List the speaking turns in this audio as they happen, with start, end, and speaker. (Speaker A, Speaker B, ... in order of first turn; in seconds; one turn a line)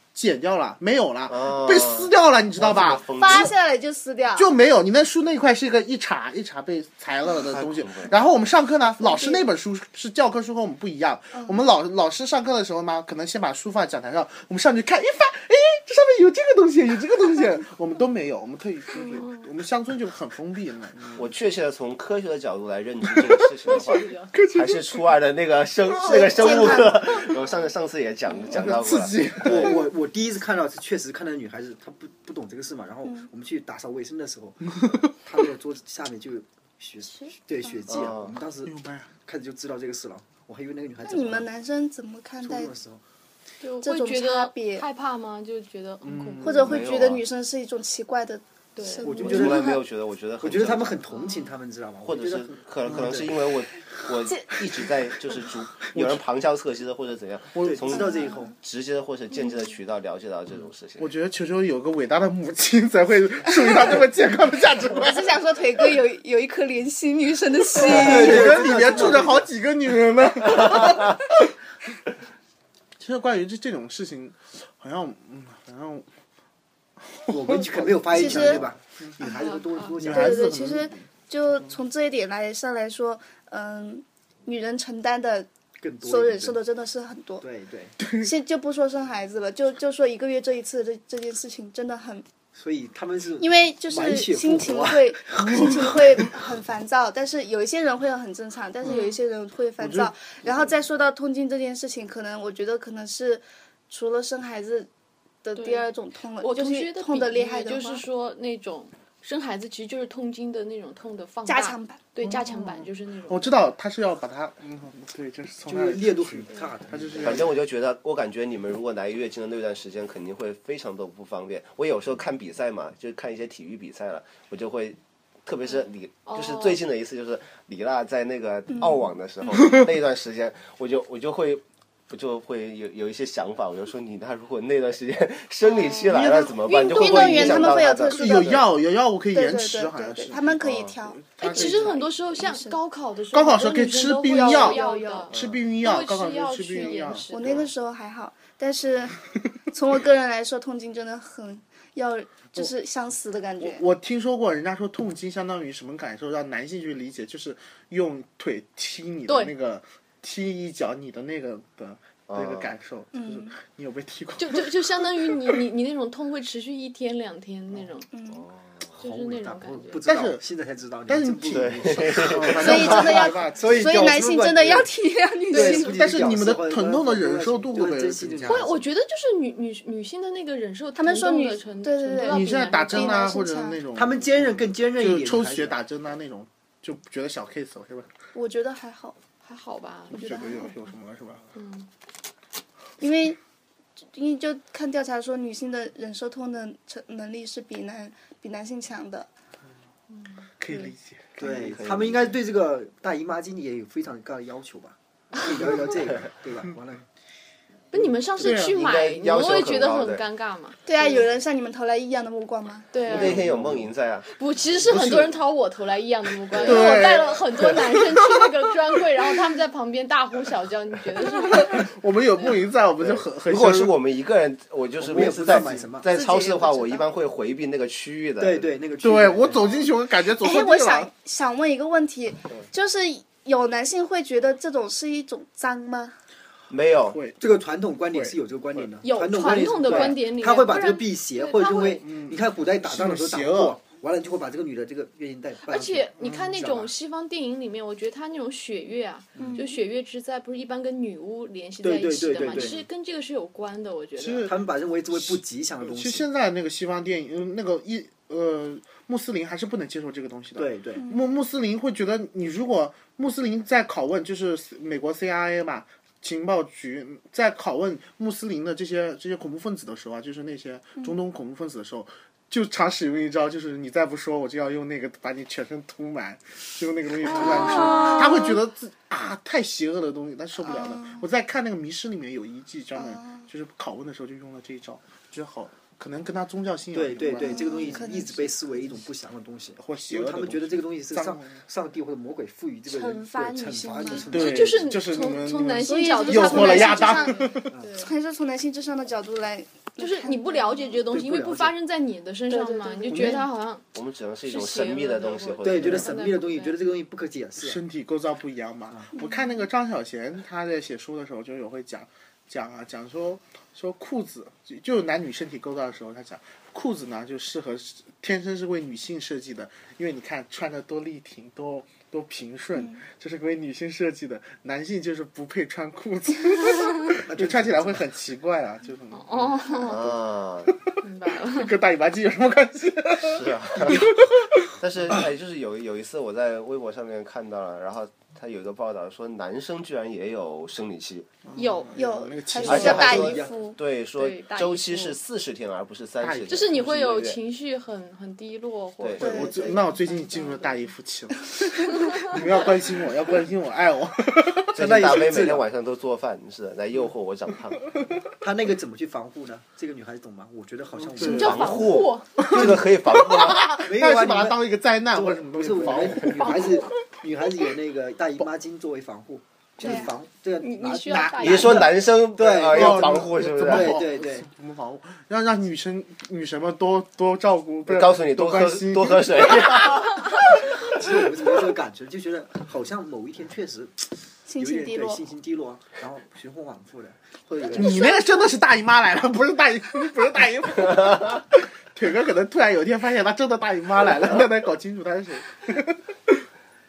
Speaker A: 0.1-3.5
Speaker B: 1.3-3.5
Speaker C: 3.1-4.5
Speaker A: 4.3-21.2
Speaker B: 7.4-8.1
Speaker C: 8.9-9.4
Speaker D: 18.9-19.5
Speaker B: 21.1-29.8
Speaker A: 23.1-23.8
Speaker D: 23.7-24.3
Speaker A: 24.3-25.1
Speaker C: 26.0-27.3
Speaker A: 26.1-26.9
Speaker A: 28.5-29.8
Speaker E: 29.4-41.5
Speaker B: 37.9-38.3
Speaker A: 38.6-39.1
Speaker C: 41.0-42.7
Speaker E: 42.4-43.0
Speaker D: 43.6-46.8
Speaker C: 43.8-44.9
Speaker A: 46.0-46.8
Speaker C: 46.4-49.8
Speaker B: 46.6-47.2
Speaker D: 48.8-49.4
Speaker E: 49.0-49.8
Speaker B: 49.2-51.0
Speaker E: 50.4-53.3
Speaker D: 51.1-51.5
Speaker B: 52.0-61.1
Speaker A: 52.9-53.3
Speaker A: 55.9-56.2
Speaker A: 57.5-57.9
Speaker E: 57.6-58.5
Speaker C: 57.9-58.5
Speaker A: 61.0-65.4
Speaker C: 65.0-69.2
Speaker E: 67.8-69.5
Speaker A: 67.8-71.5
Speaker A: 73.0-76.1
Speaker A: 77.0-78.7
Speaker E: 77.3-80.5
Speaker C: 78.1-78.6
Speaker D: 79.2-80.0
Speaker A: 80.0-81.0
Speaker C: 80.0-85.5
Speaker E: 85.8-86.6
Speaker C: 86.0-87.4
Speaker E: 87.4-88.0
Speaker C: 88.1-92.3
Speaker E: 92.5-96.2
Speaker C: 93.4-104.9
Speaker A: 95.4-96.3
Speaker D: 98.9-99.2
Speaker A: 99.8-100.6
Speaker C: 105.4-108.0
Speaker D: 105.5-105.9
Speaker D: 106.4-113.6
Speaker C: 111.5-112.0
Speaker A: 112.2-117.5
Speaker E: 115.6-117.5
Speaker B: 117.2-138.6
Speaker D: 126.2-126.8
Speaker C: 128.7-129.0
Speaker D: 135.6-136.1
Speaker C: 136.1-138.6
Speaker D: 136.7-137.7
Speaker A: 137.9-142.0
Speaker C: 139.3-142.8
Speaker B: 140.6-141.0
Speaker D: 141.4-147.5
Speaker A: 143.3-147.6
Speaker C: 144.2-145.3
Speaker B: 145.3-145.6
Speaker C: 146.8-153.8
Speaker A: 153.6-165.6
Speaker D: 159.3-159.5
Speaker B: 162.3-162.7
Speaker C: 163.1-163.5
Speaker D: 164.4-168.1
Speaker C: 168.1-168.4
Speaker B: 168.3-168.9
Speaker E: 168.9-173.0
Speaker D: 169.0-170.0
Speaker A: 170.0-170.4
Speaker A: 171.1-174.1
Speaker B: 171.5-173.3
Speaker C: 172.5-176.1
Speaker E: 173.5-174.9
Speaker E: 175.5-178.8
Speaker A: 175.6-178.8
Speaker D: 178.4-183.4
Speaker C: 180.9-183.8
Speaker A: 182.2-188.1
Speaker E: 183.9-185.8
Speaker C: 188.3-189.2
Speaker D: 189.4-190.7
Speaker A: 190.1-191.5
Speaker C: 190.1-190.7
Speaker D: 191.5-191.9
Speaker C: 193.0-193.4
Speaker C: 194.1-199.3
Speaker D: 200.1-200.9
Speaker A: 200.6-201.6
Speaker E: 201.4-207.1
Speaker B: 201.4-202.2
Speaker D: 207.9-211.2
Speaker A: 208.4-208.7
Speaker B: 208.4-210.2
Speaker C: 210.8-212.9
Speaker D: 212.9-213.4
Speaker B: 213.1-214.3
Speaker A: 213.1-213.8
Speaker D: 214.3-221.9
Speaker A: 214.8-215.4
Speaker B: 216.5-217.1
Speaker A: 216.6-218.4
Speaker A: 221.3-223.9
Speaker B: 223.0-228.7
Speaker E: 225.0-226.1
Speaker C: 226.1-227.1
Speaker E: 228.4-229.6
Speaker A: 229.0-231.1
Speaker C: 230.3-236.2
Speaker B: 236.7-237.2
Speaker A: 237.0-237.4
Speaker E: 237.4-246.9
Speaker D: 239.0-242.0
Speaker A: 239.9-240.1
Speaker A: 242.0-243.8
Speaker D: 245.7-254.5
Speaker A: 246.2-246.5
Speaker C: 249.4-249.8
Speaker E: 251.8-252.8
Speaker A: 254.2-254.6
Speaker E: 254.4-256.2
Speaker A: 255.1-288.0
Speaker E: 260.6-261.0
Speaker C: 261.0-261.2
Speaker C: 277.4-278.4
Speaker D: 277.5-278.2
Speaker C: 280.6-281.2
Speaker C: 282.9-283.4
Speaker E: 286.9-294.9
Speaker C: 287.3-288.5
Speaker A: 289.8-291.6
Speaker D: 292.9-298.1
Speaker C: 293.5-294.2
Speaker A: 294.3-297.7
Speaker C: 295.8-301.0
Speaker E: 297.7-298.1
Speaker D: 300.0-303.8
Speaker E: 301.1-301.8
Speaker C: 302.5-303.4
Speaker B: 303.9-306.1
Speaker D: 304.4-306.8
Speaker E: 305.6-307.8
Speaker A: 307.6-334.7
Speaker C: 309.1-309.5
Speaker C: 322.8-323.0
Speaker E: 327.2-328.0
Speaker D: 329.1-330.1
Speaker B: 329.9-330.7
Speaker D: 331.0-331.8
Speaker B: 333.2-334.1
Speaker B: 334.8-341.3
Speaker A: 341.4-343.4
Speaker D: 341.6-341.9
Speaker C: 341.9-343.8
Speaker B: 342.6-347.4
Speaker E: 342.7-343.5
Speaker D: 344.1-345.2
Speaker A: 346.2-346.9
Speaker D: 346.5-350.9
Speaker B: 349.0-349.4
Speaker A: 349.2-355.2
Speaker C: 349.2-349.8
Speaker E: 354.8-355.6
Speaker B: 354.8-357.9
Speaker E: 358.4-361.8
Speaker A: 361.0-361.7
Speaker D: 361.2-362.3
Speaker B: 361.2-363.7
Speaker A: 362.4-366.9
Speaker E: 362.4-362.9
Speaker E: 363.8-374.5
Speaker C: 369.8-370.1
Speaker D: 370.6-371.9
Speaker B: 371.4-374.0
Speaker A: 372.7-380.1
Speaker B: 377.9-380.4
Speaker A: 380.8-381.1
Speaker E: 380.8-388.1
Speaker C: 384.5-385.2
Speaker C: 387.7-388.5
Speaker A: 387.7-396.5